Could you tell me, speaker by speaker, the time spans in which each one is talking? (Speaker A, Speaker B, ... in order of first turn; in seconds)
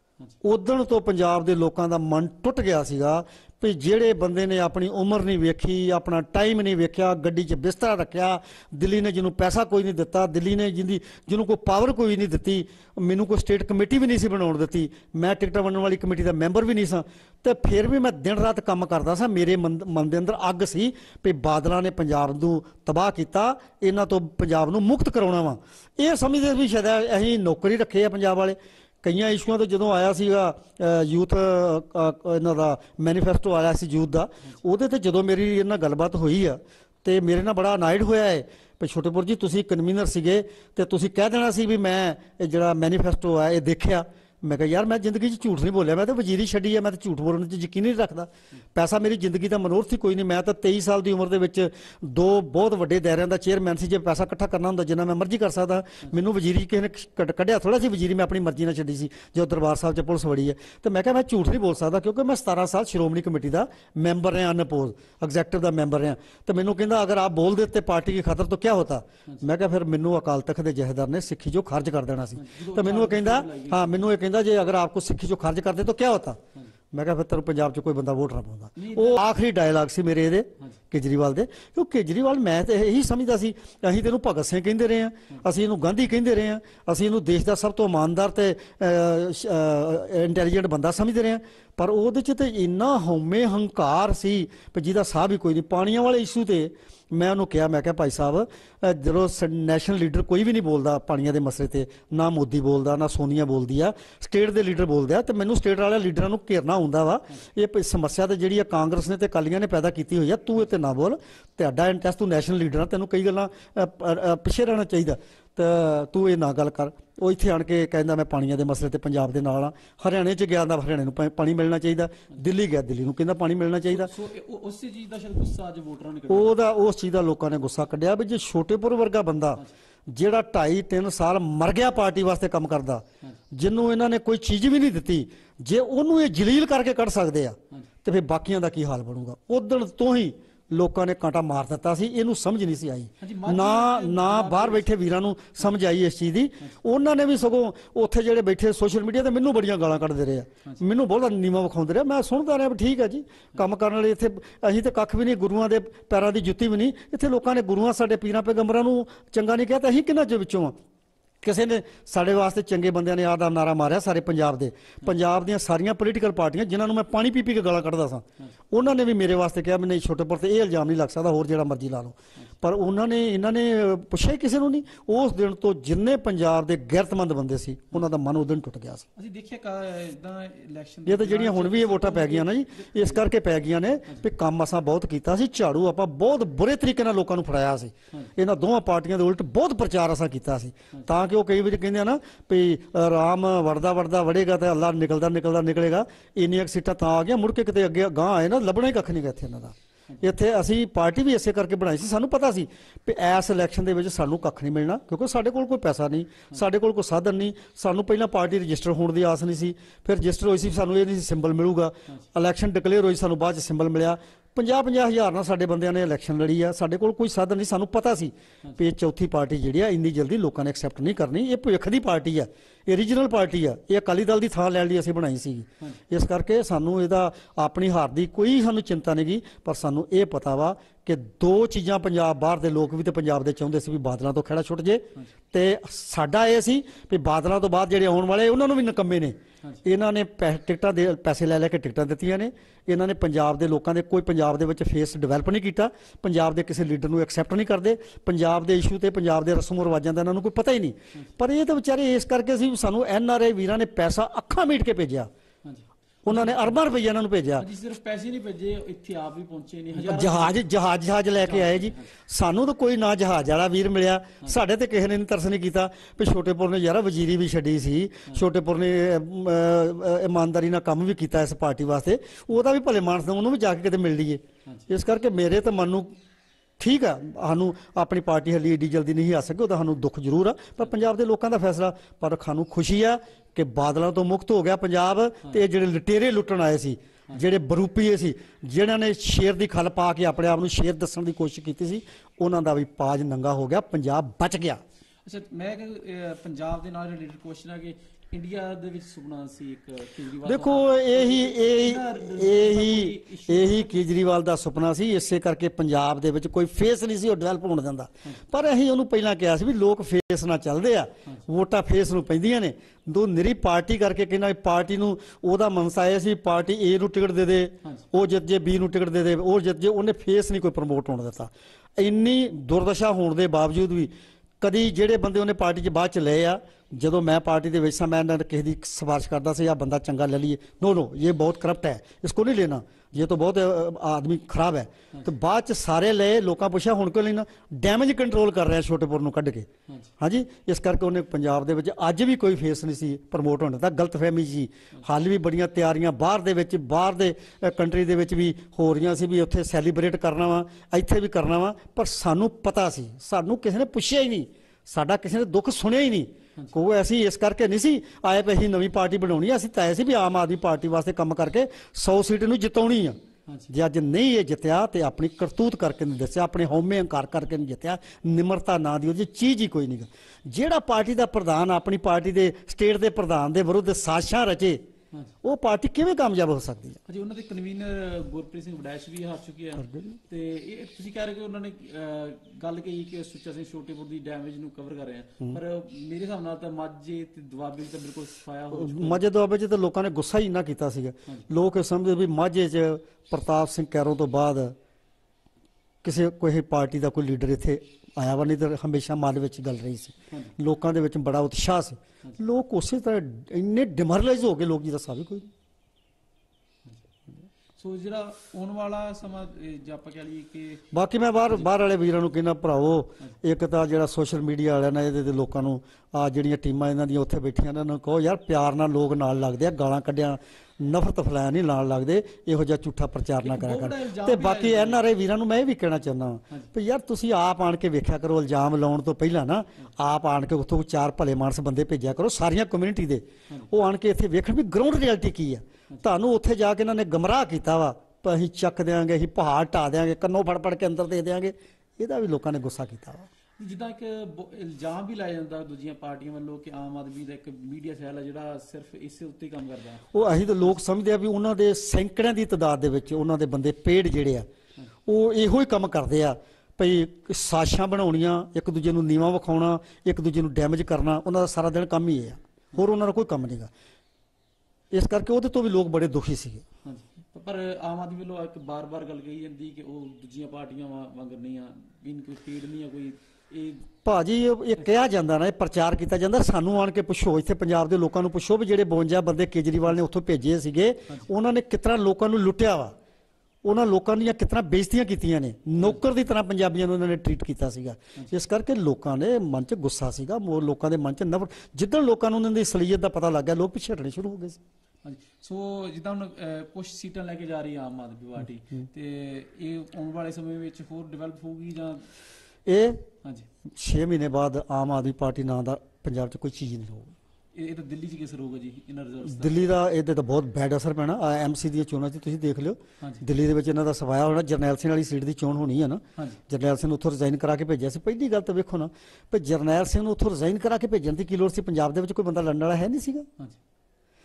Speaker A: 0.4-76.4, 76.9-124.1, 126.3-160.8, 161.4-179.1, 181.1-255.3, 256.2-257.7, 259.9-276.1, 276.8-294.8, 300.4-339.7, 340.2-363.2, 363.7-374.8, 375.4-377.0, 379.8-380.2, 388.7-394.8, 396.0-405.5, 410.9-443.3, 450.1-454.5, 455.1-463.7, 464.9-466.6, 474.1-482.9, 483.6-494.6, 502.7-503.1, 503.7-507.1, 509.2-523.3
Speaker B: 72.3-74.1, 78.8-79.2, 123.9-126.6, 143.2-144.9, 179.2-183.2, 255.6-256.8, 257.6-260.7, 261.4-262.1, 295.2-304.0, 377.1-389.2, 407.8-410.8, 423.4-425.0, 443.6-450.1, 466.8-473.9, 495.0-502.1, 507.6-509.7, 513.0-513.2